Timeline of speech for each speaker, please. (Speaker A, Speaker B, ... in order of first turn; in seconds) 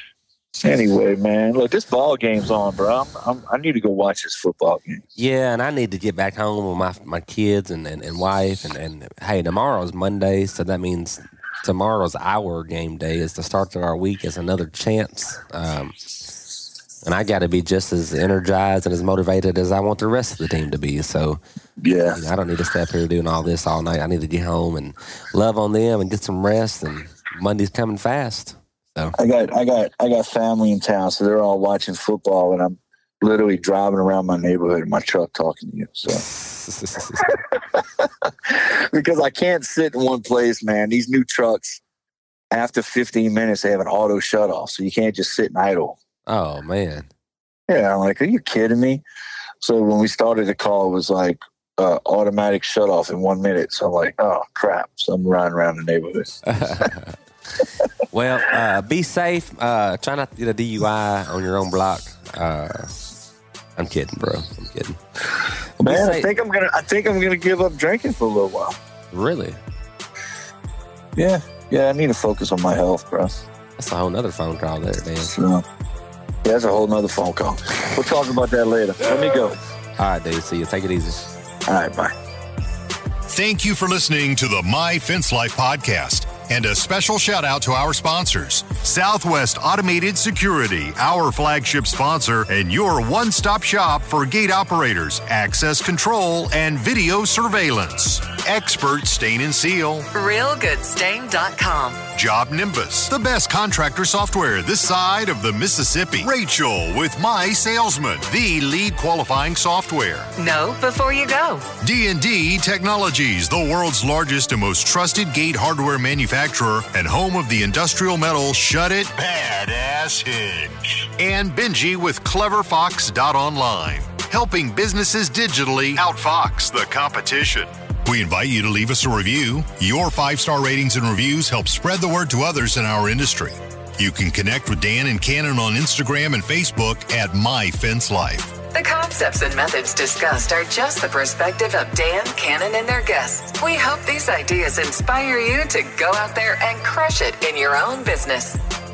Speaker A: 0.6-5.0, 21.8-22.2, 29.2-36.2, 37.3-41.8, 42.5-46.0, 47.7-49.0, 49.6-56.9, 65.8-68.8, 71.2-73.4, 75.2-75.6, 76.4-79.6, 81.7-82.1
Speaker B: 5.2-15.9, 17.0-21.4, 22.1-29.1, 36.1-37.4, 46.3-47.1, 56.5-57.1, 58.1-63.0, 63.8-65.0, 65.8-66.3, 69.1-69.6, 73.8-75.3, 80.0-81.2
Speaker C: 83.3-100.1, 102.1-110.3, 111.8-138.5
Speaker D: 100.1-102.0, 110.4-111.6, 138.7-148.6